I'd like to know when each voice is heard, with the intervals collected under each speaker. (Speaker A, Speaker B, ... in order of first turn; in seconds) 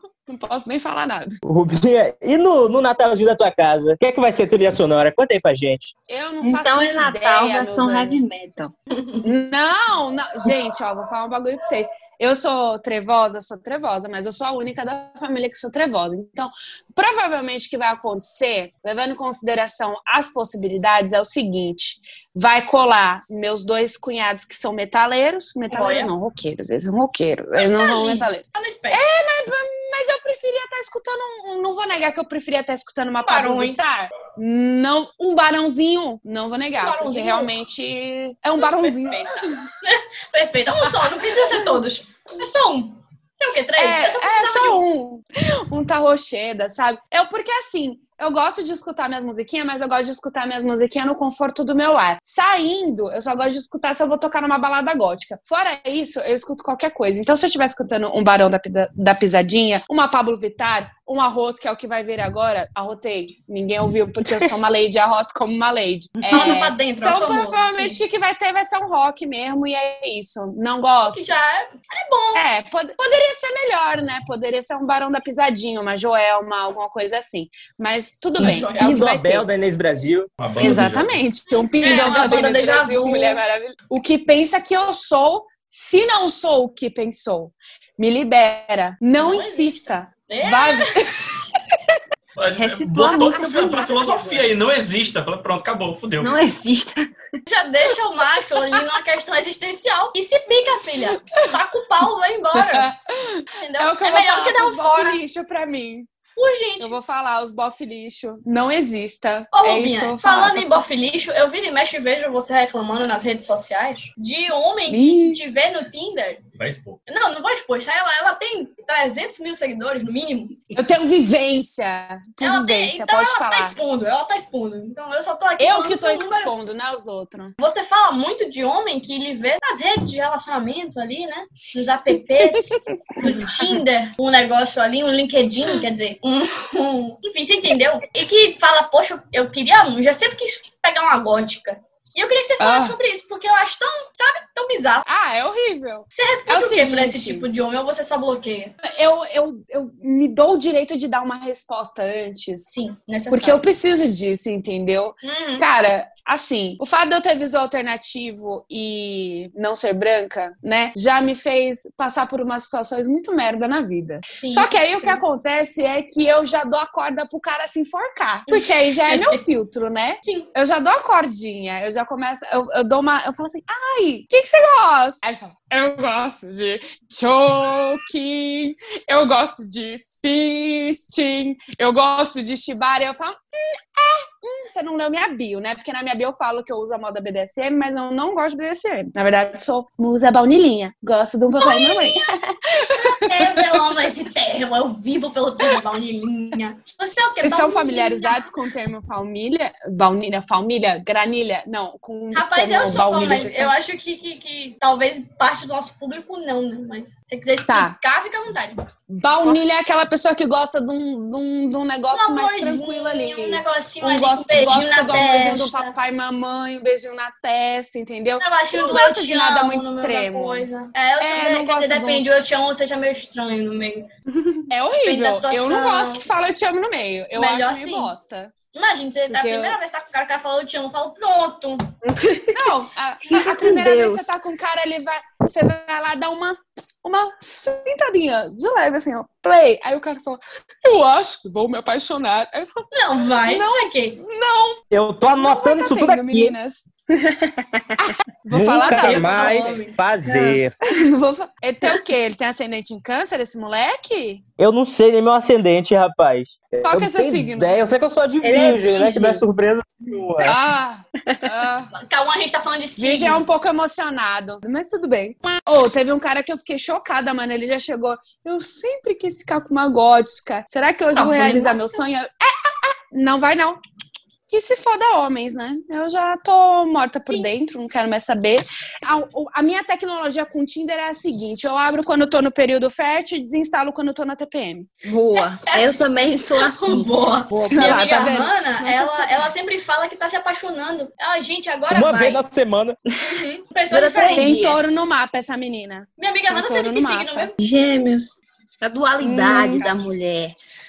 Speaker A: 0.3-1.4, 6.1-8.2, 9.2-39.6, 41.3-41.6, 43.8-71.2, 72.3-79.5, 80.6-91.3, 102.5-106.1, 106.8-110.8, 114.9-115.4, 120.8-123.8, 125.6-127.5, 132.6-133.2, 142.6-143.0, 145.1-147.5, 148.8-152.7, 153.3-193.9, 197.4-203.7, 207.7-207.9, 209.1-220.7, 221.2-222.3, 224.7-228.5, 229.3-229.8, 232.5-242.9, 243.5-244.8, 245.3-246.9, 248.0-249.8, 250.9-254.4, 256.8-257.8, 260.4-261.9, 263.0-273.8, 274.5-284.9, 287.7-289.5, 294.3-297.5, 299.2-299.9
Speaker B: 1.4-5.9, 78.4-80.3, 244.9-246.6, 248.5-250.8, 254.6-260.6, 291.9-293.0
Speaker C: 6.4-8.7, 92.5-94.5, 96.2-97.1, 224.3-224.6, 232.0-234.3, 250.2-250.6, 258.4-259.4, 285.0-288.1, 293.9-294.8, 297.6-300.6
Speaker D: 25.7-26.1, 27.6-29.0, 33.2-33.9, 36.8-37.6, 38.6-44.8, 66.3-68.0, 71.1-72.5, 78.4-79.0, 81.8-83.4, 89.2-91.0, 97.5-102.9, 103.6-105.2, 106.4-107.0, 109.5-116.4, 117.1-120.6, 122.4-126.5, 127.6-145.1, 146.2-148.8, 152.7-153.7, 155.2-155.7, 164.3-165.2, 168.5-169.4, 191.6-192.3, 192.8-198.5, 202.3-208.8, 212.1-215.9, 218.4-224.1, 225.0-226.3, 227.3-228.1, 228.7-231.8, 242.9-244.2, 248.6-250.0, 261.9-263.5, 271.1-272.0, 285.6-286.0, 286.5-292.4, 293.3-294.6, 296.2-297.6, 299.5-300.1
Speaker E: 80.4-81.1, 92.4-96.4, 116.5-117.0